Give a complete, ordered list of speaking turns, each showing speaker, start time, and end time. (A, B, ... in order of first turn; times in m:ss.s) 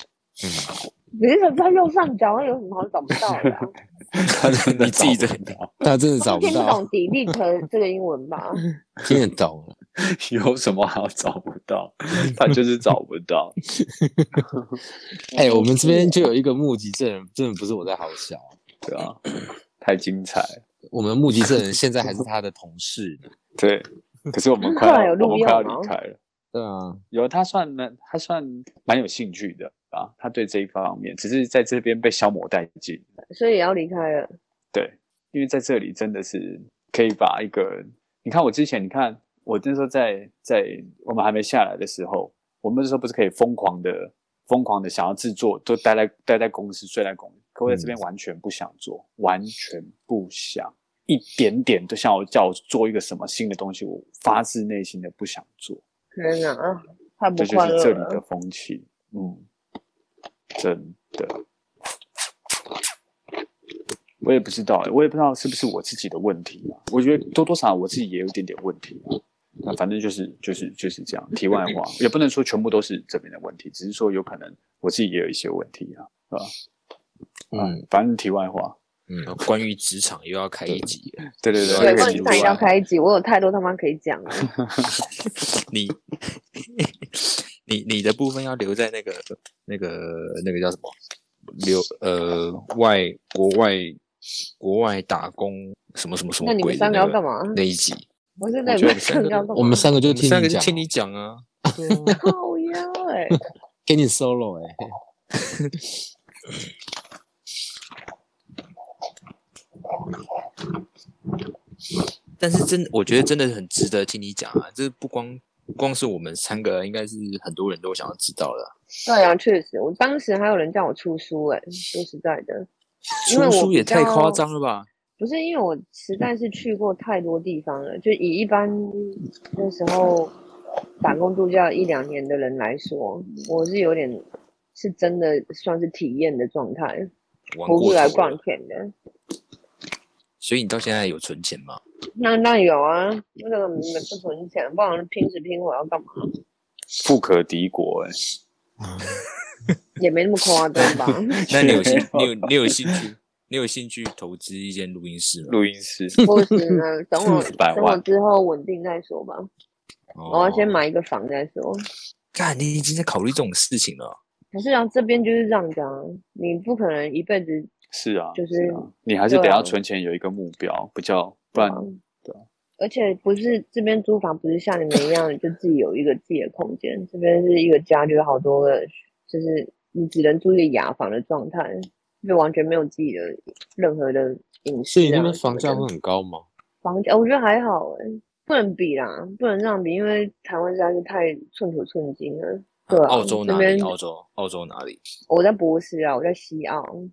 0:00.4-0:00.7 A
0:01.2-0:03.7 B
0:03.4-0:05.7 C
0:04.3-0:05.4 D
0:05.8-0:06.8 A
0:06.2-0:08.6 B
0:09.1-0:09.8 A
0:10.0-0:13.6 C
0:13.8-0:14.5 A
0:14.4-0:14.8 C
0:15.3-0:16.3 B
0:15.3-0:18.5 A
0:18.8-0:19.2 C
0:19.8-0:20.6 C
0:20.9-0:23.3 A
0:23.6-0:26.2 C
0:24.7-0:25.9 B
0:26.5-0:27.0 A
0:27.1-0:33.0 C
0:33.3-0:34.3 B
0:34.7-0:55.8 C
0:56.2-0:58.2 B
0:57.4-0:59.5 C
1:00.6-1:01.4 C
1:04.2-1:16.5 C
1:17.5-1:17.8 A
1:17.5-1:18.8 C
1:19.1-1:19.3 A
1:19.2-1:22.7 D
1:21.4-1:22.6 C
1:21.8-1:24.5 B
1:24.4-1:24.9 C
1:25.2-1:30.9 D
1:31.5-1:34.0 D
1:34.6-1:38.1 D
1:36.4-1:37.6 B
1:38.4-1:39.9 B
1:38.7-1:39.4 D
1:39.6-1:40.8 A
1:40.1-1:42.2 D
1:41.8-1:42.2 A
1:42.2-1:43.4 B
1:43.9-1:44.8 A
1:45.4-1:45.7 D
1:52.4-1:58.7 D
1:59.0-2:02.7 B
2:03.2-2:04.9 D
2:03.3-2:04.4 B
2:05.2-2:10.3 B
2:11.0-2:17.1 B
2:17.5-2:18.4 D
2:17.7-2:18.9 B
2:20.4-2:21.8 D
2:22.2-2:26.2 B
2:27.0-2:28.2 C
2:30.0-2:31.9 B
2:30.8-2:35.6 D
2:31.5-2:33.0 C
2:35.5-2:36.2 C
2:36.2-2:36.6 A
2:36.2-2:39.5 B
2:37.5-2:38.0 C
2:40.2-2:40.8 D
2:40.3-2:41.8 B
2:42.3-2:44.2 D
2:44.5-2:47.7 B
2:47.9-2:52.4 C
2:48.4-2:49.8 B
2:51.6-2:52.0 B
2:52.8-3:05.9 B
3:04.9-3:06.5 A
3:06.8-3:13.9 B
3:12.9-3:15.0 D
3:15.3-3:16.9 B